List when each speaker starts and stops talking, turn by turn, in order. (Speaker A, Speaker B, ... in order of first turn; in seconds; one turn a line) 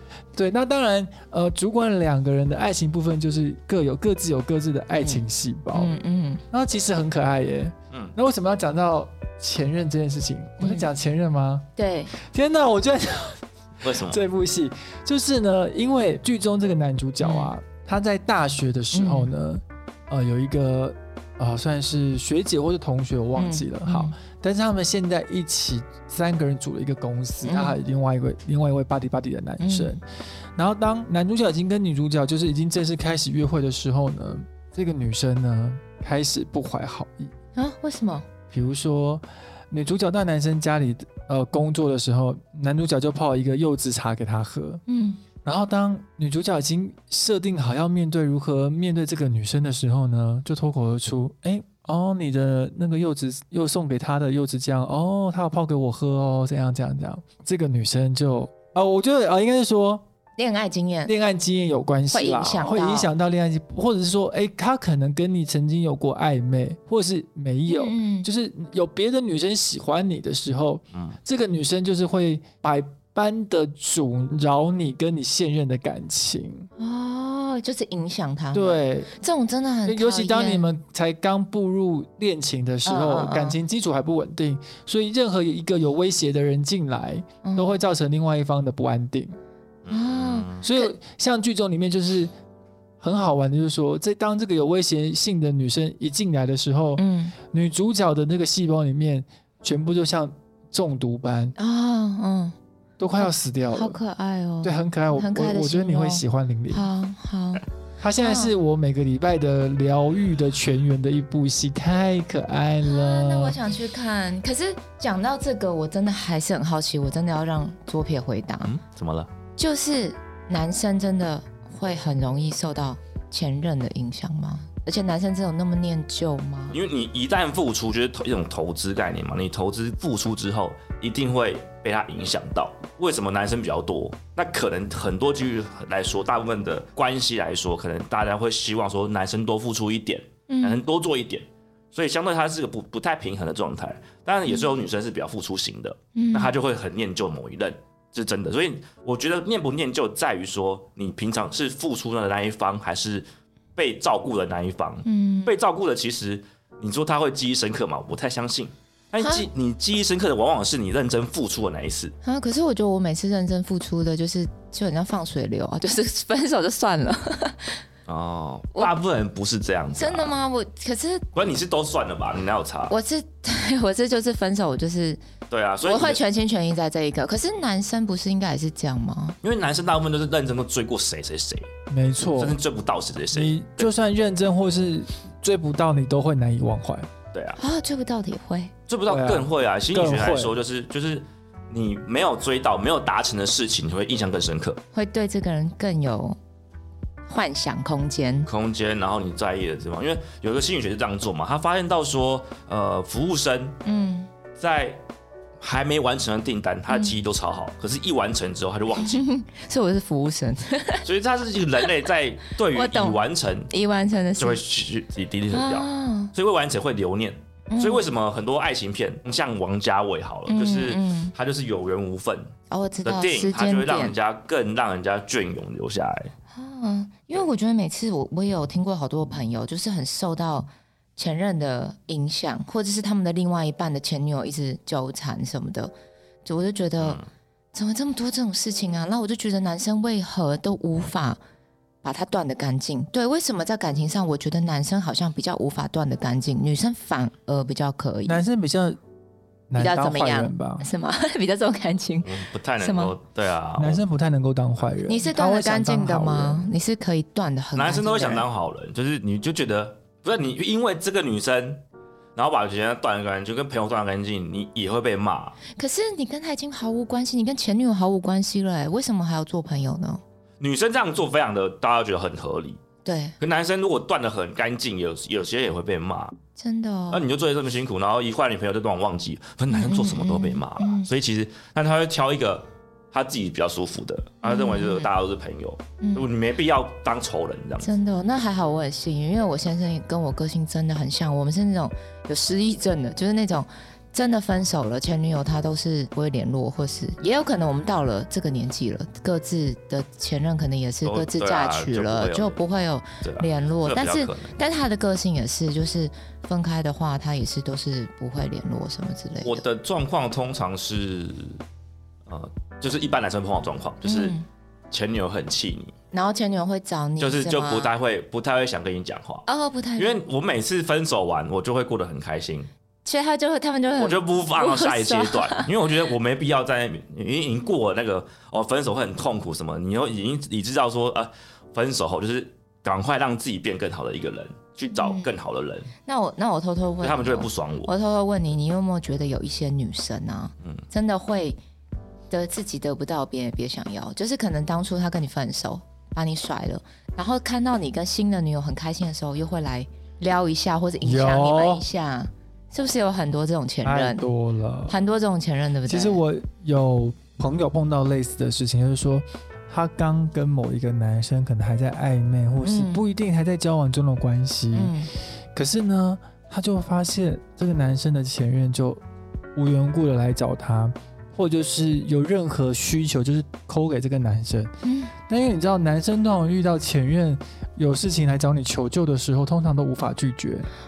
Speaker A: 0.3-6.0
Speaker B: 5.0-6.4
Speaker A: 6.5-30.0
Speaker B: 10.6-10.9
Speaker B: 11.8-12.1
Speaker C: 13.8-14.2
Speaker B: 17.2-17.5
Speaker B: 18.9-19.3
Speaker B: 23.4-24.1
Speaker B: 27.4-27.8
Speaker B: 29.6-30.0
Speaker A: 30.6-37.3
Speaker B: 37.6-38.3
Speaker A: 38.5-44.8
Speaker B: 44.9-45.2
Speaker A: 45.4-60.0
Speaker B: 60.4-61.1
Speaker A: 61.1-76.7
Speaker B: 62.1-63.1
Speaker B: 67.7-68.3
Speaker B: 76.8-80.7
Speaker A: 78.5-79.1
Speaker A: 79.9-89.4
Speaker B: 82.9-83.6
Speaker B: 87.4-87.8
Speaker C: 89.8-90.7
Speaker B: 89.9-90.9
Speaker A: 90.6-92.3
Speaker A: 93.0-101.6
Speaker B: 97.0-97.3
Speaker B: 101.6-102.6
Speaker A: 103.0-104.0
Speaker B: 103.2-107.6
Speaker A: 104.6-106.9
Speaker A: 108.0-113.6
Speaker B: 108.2-108.5
Speaker B: 112.8-118.7
Speaker C: 118.6-119.3
Speaker B: 119.6-126.8
Speaker C: 126.7-162.1
Speaker B: 140.5-140.8
Speaker B: 146.2-146.5
Speaker B: 155.1-155.5
Speaker B: 159.2-159.5
Speaker B: 162.2-167.8
Speaker C: 168.1-170.3
Speaker B: 170.0-171.3
Speaker C: 171.3-172.9
Speaker B: 172.9-175.2
Speaker C: 175.5-176.2
Speaker B: 175.8-179.4
Speaker C: 179.4-181.7
Speaker A: 181.9-182.6
Speaker C: 182.4-183.9
Speaker A: 183.3-187.1
Speaker C: 187.3-187.6
Speaker B: 187.6-188.7
Speaker C: 188.9-194.8
Speaker A: 189.1-190.6
Speaker B: 194.9-196.4
Speaker B: 197.3-198.5
Speaker C: 198.5-203.8
Speaker B: 203.8-204.3
Speaker C: 204.6-205.0
Speaker C: 205.6-209.2
Speaker B: 206.9-207.2
Speaker B: 208.9-211.0
Speaker C: 211.0-213.7
Speaker B: 212.7-214.6
Speaker C: 214.4-222.5
Speaker B: 215.5-216.3
Speaker B: 217.7-218.1
Speaker B: 220.5-221.3
Speaker B: 222.7-224.2
Speaker C: 223.1-226.3
Speaker B: 226.5-235.9
Speaker B: 236.4-237.2
Speaker C: 237.0-237.3
Speaker B: 237.7-241.4
Speaker B: 242.0-248.4
Speaker A: 248.3-249.0
Speaker A: 249.7-250.9
Speaker B: 249.8-253.2
Speaker C: 252.2-254.0
Speaker A: 253.8-256.7
Speaker B: 255.1-258.5
Speaker C: 257.8-261.8
Speaker C: 262.4-265.6
Speaker B: 265.7-270.2
Speaker C: 270.6-272.8
Speaker B: 273.1-273.4
Speaker C: 273.4-276.4
Speaker B: 276.6-277.3
Speaker C: 277.1-287.9
Speaker B: 279.7-281.1
Speaker B: 284.4-285.1
Speaker B: 286.0-286.3
Speaker B: 287.8-309.6
Speaker C: 301.1-302.6
Speaker C: 303.2-304.5
Speaker C: 309.4-311.6
Speaker C: 312.3-314.4
Speaker B: 314.0-314.5
Speaker C: 314.9-315.9
Speaker B: 316.1-317.9
Speaker C: 317.2-322.7
Speaker B: 319.5-320.2
Speaker B: 323.1-325.7
Speaker C: 324.0-335.9
Speaker B: 334.9-335.3
Speaker B: 336.1-341.6
Speaker C: 337.0-337.9
Speaker B: 342.3-354.3
Speaker A: 351.0-351.8
Speaker A: 353.8-354.9
Speaker B: 354.9-356.2
Speaker A: 355.9-364.9
Speaker B: 362.6-363.0
Speaker B: 364.7-365.1
Speaker A: 365.6-369.0
Speaker A: 369.6-374.7
Speaker B: 374.8-375.1
Speaker A: 375.3-380.7